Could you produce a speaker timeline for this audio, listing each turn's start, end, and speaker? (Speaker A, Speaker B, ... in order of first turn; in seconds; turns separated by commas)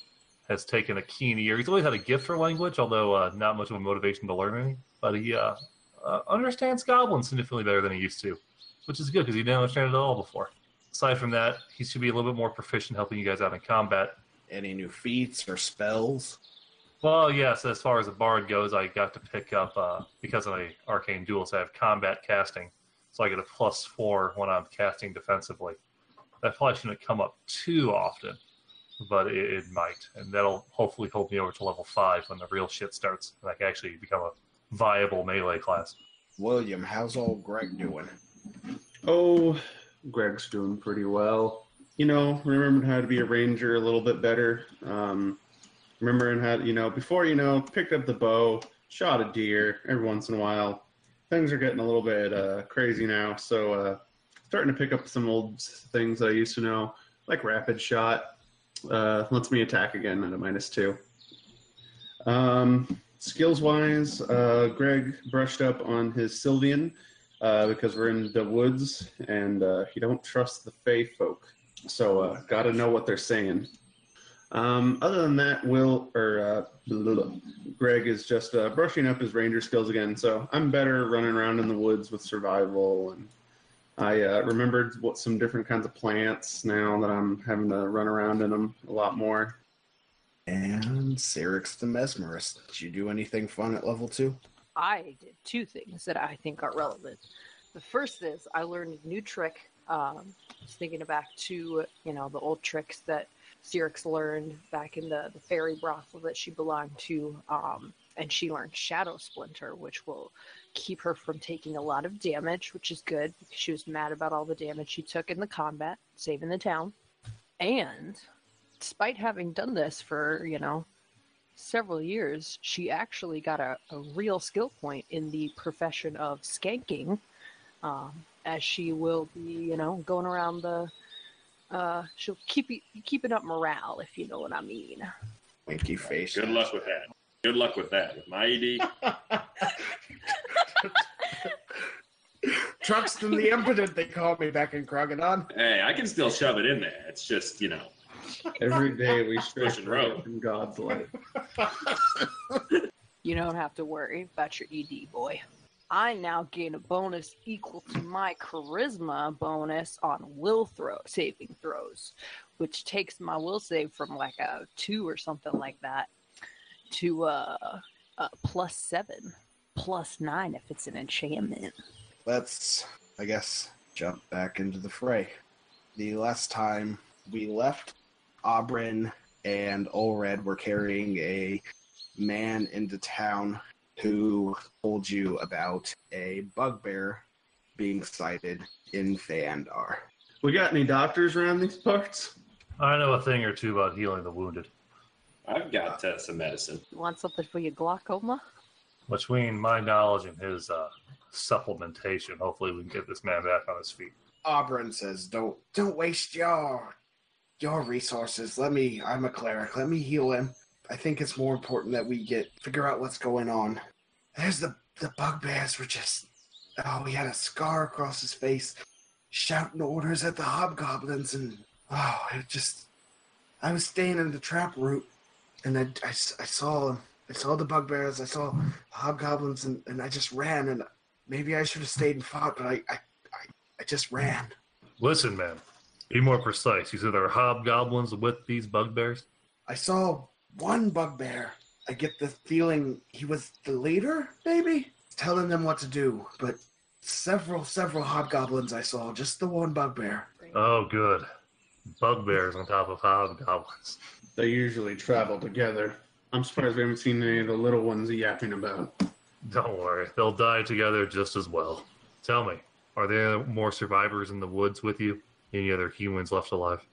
Speaker A: 0.5-14.2, Speaker B: 14.5-16.4, Speaker A: 17.0-25.8, Speaker A: 26.4-28.4, Speaker A: 29.0-36.0, Speaker B: 36.4-38.1, Speaker C: 39.0-45.4, Speaker C: 46.0-61.0, Speaker C: 62.2-73.7, Speaker C: 74.5-83.3, Speaker C: 84.0-89.6, Speaker B: 90.5-94.4, Speaker D: 94.8-97.2, Speaker D: 97.7-116.9, Speaker D: 117.6-118.2, Speaker D: 118.8-120.9, Speaker D: 121.6-127.2, Speaker D: 127.8-130.9, Speaker D: 131.7-135.1, Speaker B: 135.7-136.7, Speaker E: 136.3-139.1, Speaker B: 142.5-145.5, Speaker E: 145.5-147.9, Speaker C: 148.6-151.1, Speaker E: 149.6-150.2, Speaker D: 153.2-166.1, Speaker D: 166.9-171.8, Speaker B: 172.2-175.3, Speaker B: 175.9-181.6, Speaker B: 182.2-187.2, Speaker B: 187.8-190.0, Speaker C: 190.4-192.3, Speaker A: 192.8-194.7, Speaker E: 195.4-196.8, Speaker D: 196.9-198.4, Speaker A: 199.1-204.1, Speaker B: 204.4-206.9, Speaker B: 207.6-213.8, Speaker B: 214.3-218.7, Speaker B: 219.3-222.9, Speaker B: 223.6-225.1, Speaker B: 225.6-234.6, Speaker A: 235.0-239.2, Speaker B: 239.7-250.3, Speaker A: 250.5-251.3, Speaker A: 252.0-254.0, Speaker C: 254.3-259.0, Speaker A: 259.4-266.8